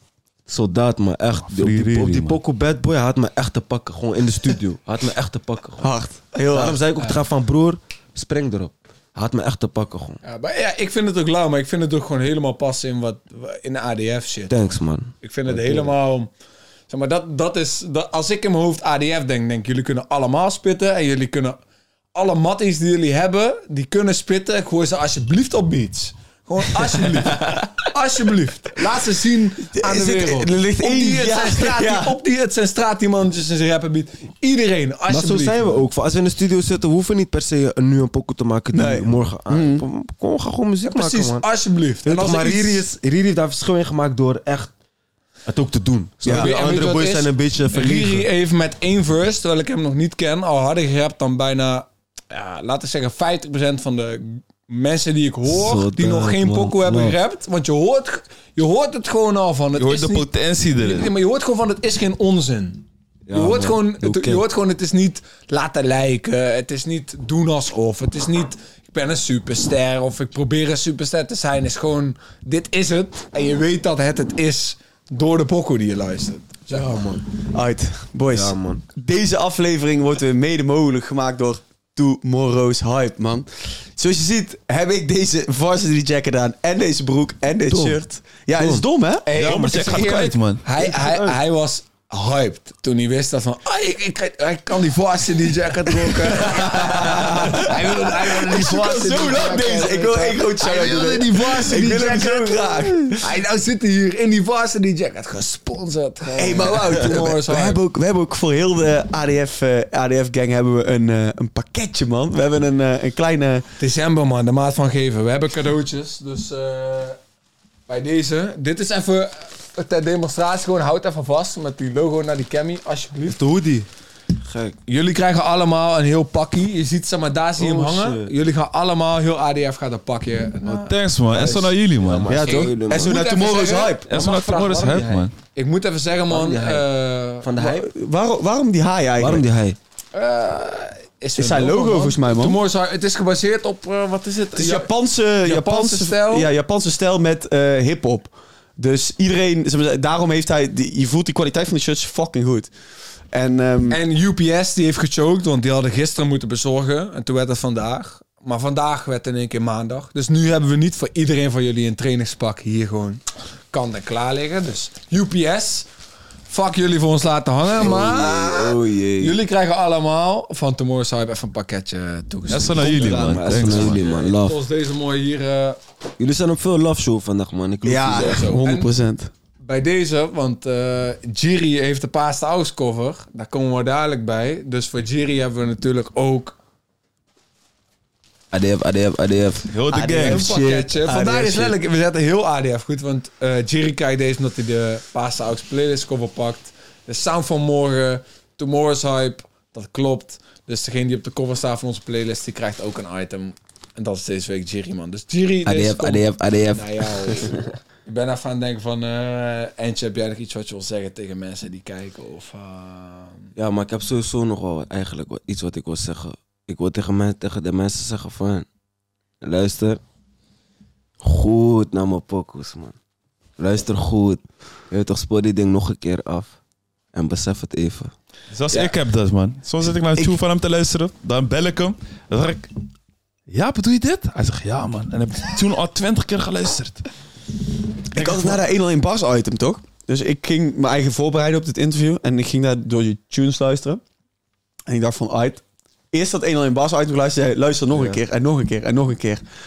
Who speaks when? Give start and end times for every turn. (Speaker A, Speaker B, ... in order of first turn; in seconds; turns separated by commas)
Speaker A: 0.5-5.9, Speaker B: 1.5-2.4, Speaker C: 5.8-6.8, Speaker A: 6.5-10.2, Speaker D: 10.2-14.6, Speaker A: 14.5-15.9, Speaker D: 15.2-16.3, Speaker D: 16.9-21.6, Speaker D: 22.1-35.6, Speaker C: 29.7-32.1, Speaker A: 35.1-41.5, Speaker C: 38.7-39.8, Speaker D: 40.9-42.9, Speaker A: 42.0-44.7, Speaker A: 45.5-48.3, Speaker C: 46.2-46.5, Speaker D: 46.3-76.9, Speaker A: 55.5-57.2, Speaker B: 59.8-61.1, Speaker A: 63.3-64.4, Speaker A: 76.7-77.2, Speaker C: 77.5-89.3, Speaker A: 78.3-78.8, Speaker A: 87.7-88.0, Speaker A: 88.6-88.8, Speaker D: 89.2-107.8, Speaker B: 89.3-90.6, Speaker C: 96.1-103.2, Speaker C: 106.4-113.6, Speaker D: 113.8-117.2, Speaker D: 117.9-123.4, Speaker A: 123.2-123.9, Speaker A: 124.4-124.8, Speaker D: 124.9-137.5, Speaker A: 127.6-128.3, Speaker B: 130.6-132.4, Speaker A: 132.0-133.2, Speaker C: 132.3-134.1, Speaker B: 134.1-135.3, Speaker A: 136.3-136.9, Speaker A: 137.4-137.9, Speaker C: 137.6-139.4, Speaker A: 139.2-139.8, Speaker D: 140.1-144.9, Speaker C: 141.3-142.6, Speaker C: 144.5-152.7, Speaker D: 145.4-146.5, Speaker C: 153.3-154.0, Speaker D: 153.9-165.9, Speaker D: 166.5-173.1, Speaker A: 167.8-169.4, Speaker B: 172.5-174.0, Speaker C: 172.8-173.7, Speaker A: 173.0-174.6, Speaker D: 173.6-175.8, Speaker A: 176.2-178.5, Speaker C: 177.8-179.3, Speaker D: 178.2-178.9, Speaker D: 179.6-186.6, Speaker A: 188.5-191.5, Speaker B: 189.7-190.5, Speaker C: 189.9-191.7, Speaker D: 190.2-213.5, Speaker A: 205.7-207.6, Speaker A: 213.6-218.7, Speaker A: 219.4-220.0, Speaker A: 221.2-223.0, Speaker A: 223.6-226.5, Speaker A: 227.1-228.1, Speaker B: 228.5-232.7, Speaker B: 233.5-237.0, Speaker C: 238.1-244.0, Speaker B: 238.2-238.6, Speaker C: 244.9-249.4, Speaker A: 247.9-248.2